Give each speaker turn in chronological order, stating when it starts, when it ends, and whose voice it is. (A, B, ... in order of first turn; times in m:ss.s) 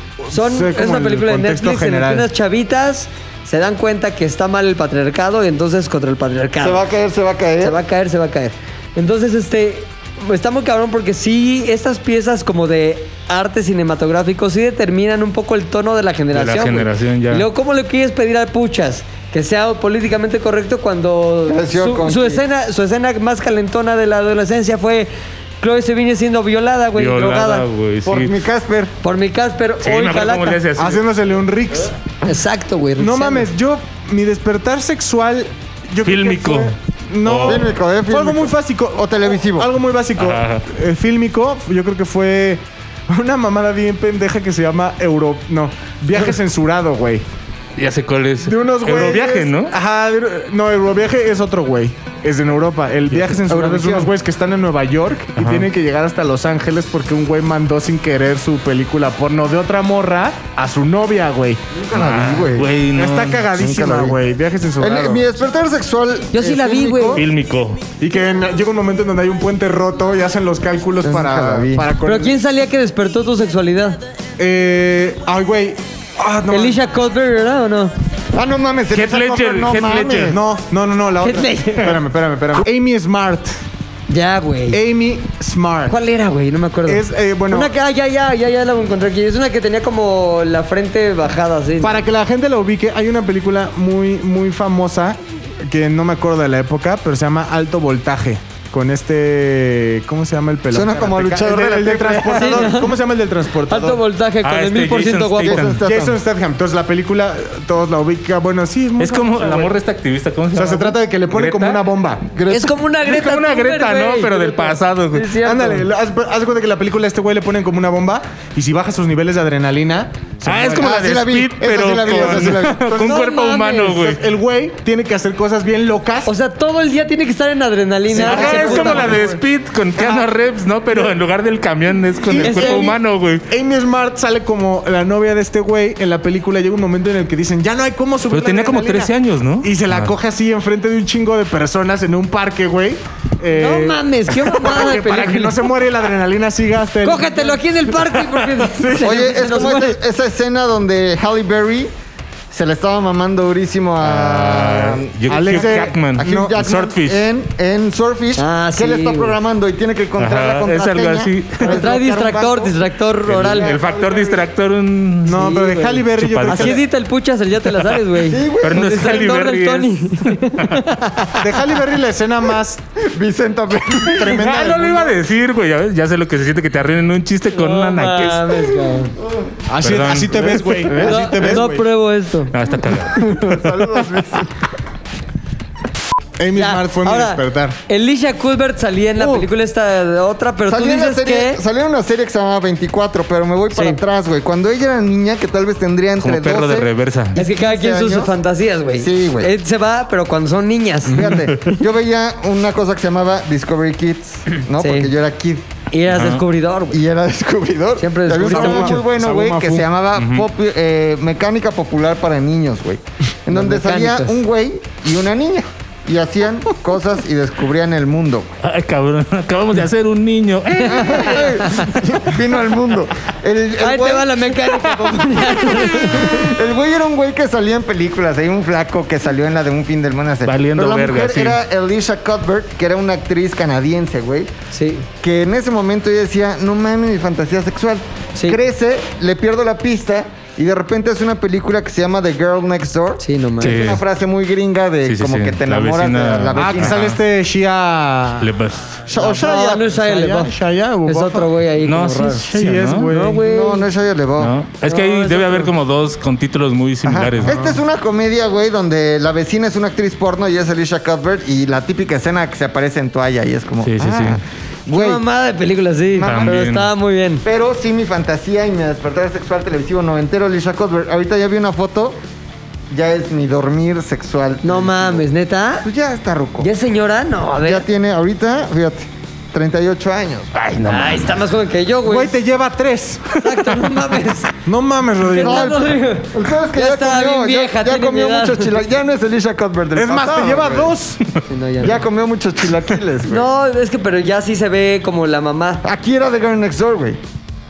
0:00.2-0:02.3 A
0:00.3-0:06.8 B
0:06.6-0:07.8 C
0:07.6-0:25.1 B
0:16.3-0:17.4 D
0:21.5-0:22.4 C
0:25.6-0:27.6 B
0:27.0-0:28.3 D
0:28.0-0:28.9 C
0:29.0-0:30.6 B
0:29.8-0:31.0 D
0:30.8-0:31.9 A
0:32.2-0:33.5 B
0:33.0-0:47.2 A
0:36.0-0:37.7 D
0:37.4-0:39.7 C
0:40.2-0:40.6 D
0:47.8-0:49.7 D
0:48.4-1:01.6 A
0:53.1-0:53.4 D
0:53.5-0:54.1 C
0:55.4-0:55.7 D
1:01.7-1:02.7 C
1:01.9-1:03.4 D
1:02.9-1:05.2 A
1:03.5-1:04.2 C
1:04.8-1:07.2 C
1:06.3-1:07.2 B
1:07.1-1:07.8 D
1:08.0-1:12.4 A
1:11.0-1:11.9 C
1:12.0-1:14.0 B
1:14.4-1:16.8 A
1:16.5-1:17.9 B
1:18.3-1:20.4 C
1:18.9-1:20.4 D
1:20.3-1:23.6 A
1:21.2-1:21.9 B
1:24.1-1:24.8 B
1:24.7-1:25.9 A
1:25.9-1:32.0 B
1:26.8-1:27.7 A
1:31.8-1:44.0 A
1:40.7-1:42.8 C
1:42.3-1:43.0 B
1:43.7-1:45.6 B
1:44.4-1:45.8 D
1:45.4-1:46.2 C
1:45.8-1:49.7 A
1:49.0-1:51.8 D
1:50.5-1:52.2 A
1:52.3-1:52.7 C
1:52.5-1:55.9 B
1:53.0-1:55.3 D
1:55.4-2:01.2 A
2:00.4-2:04.2 D
2:00.8-2:02.9 C
2:01.7-2:06.3 A
2:03.0-2:04.0 B
2:06.2-2:09.4 B
2:08.1-2:09.4 A
2:08.2-2:13.4 D
2:10.0-2:10.3 A
2:12.2-2:13.0 A
2:12.4-2:12.9 B
2:13.5-2:19.1 A
2:18.3-2:20.1 D
2:19.6-2:29.5 A
2:23.5-2:25.7 B
2:27.0-2:30.0 B
2:29.0-2:31.9 C
2:32.5-2:44.4 C
2:34.0-2:37.2 D
2:35.3-2:36.5 A
2:38.4-2:39.4 B
2:40.2-2:41.8 D
2:41.6-2:43.8 B
2:43.3-2:45.4 D
2:45.2-2:46.8 A
2:45.3-2:51.4 B
2:46.2-2:46.8 D
2:48.2-2:49.0 C
2:48.6-2:50.8 D
2:51.4-2:52.8 A
2:53.0-2:54.4 C
2:54.0-2:55.2 A
2:54.3-2:58.6 D
2:57.5-2:59.1 B
2:59.2-2:59.5 C
2:59.7-3:01.8 A
2:59.8-3:01.2 D
3:01.0-3:02.5 B
3:02.5-3:03.8 D
3:03.1-3:04.5 C
3:06.4-3:07.8 A
3:06.5-3:11.6 B
3:09.2-3:09.5 C
3:10.7-3:18.3 C
3:13.7-3:14.0 B
3:16.2-3:17.4 D
3:17.3-3:21.2 B
3:19.0-3:19.5 C
3:21.1-3:21.4 A
3:21.1-3:25.6 C
3:24.8-3:25.1 B
3:25.9-3:27.0 B
3:26.1-3:26.4 D
3:26.9-3:38.6 C
3:28.0-3:29.0 B
3:28.4-3:29.9 A
3:30.2-3:30.4 D
3:33.5-3:34.4 B
3:38.6-3:41.4 D
3:40.8-3:41.9 B
3:40.8-3:54.5 C
3:43.8-3:46.5 B
3:50.4-3:51.6 D
3:54.7-3:55.1 B
3:55.2-4:07.0 C
4:03.2-4:03.8 B
4:03.6-4:04.0 D
4:05.0-4:07.2 D
4:06.6-4:08.5 A
4:08.4-4:09.0 D
4:09.1-4:09.8 C
4:09.1-4:11.5 A
4:09.3-4:10.5 B
4:11.0-4:12.4 B
4:11.8-4:13.1 D
4:12.5-4:13.4 A
4:13.1-4:13.8 B
4:13.4-4:14.5 C
4:14.4-4:17.6 D
4:14.8-4:15.7 B
4:17.0-4:25.2 C
4:17.4-4:17.8 A
4:23.8-4:24.4 D
4:24.9-4:27.4 B
4:26.2-4:26.7 C
4:26.2-4:26.9 D
4:27.4-4:32.2 C
4:32.9-4:35.3 C
4:34.6-4:35.9 B
4:35.8-4:36.7 C
4:36.6-4:37.8 B
4:37.6-4:40.5 C
4:40.5-4:41.3 D
4:40.8-4:42.3 B
4:42.0-4:43.8 A
4:43.4-4:44.5 B
4:44.6-4:45.8 A
4:45.2-4:48.9 B
4:45.4-4:51.0 C
4:49.9-4:51.2 A
4:51.4-4:52.0 B
4:51.8-4:53.5 C
4:53.3-4:55.8 B
4:55.8-4:57.2 C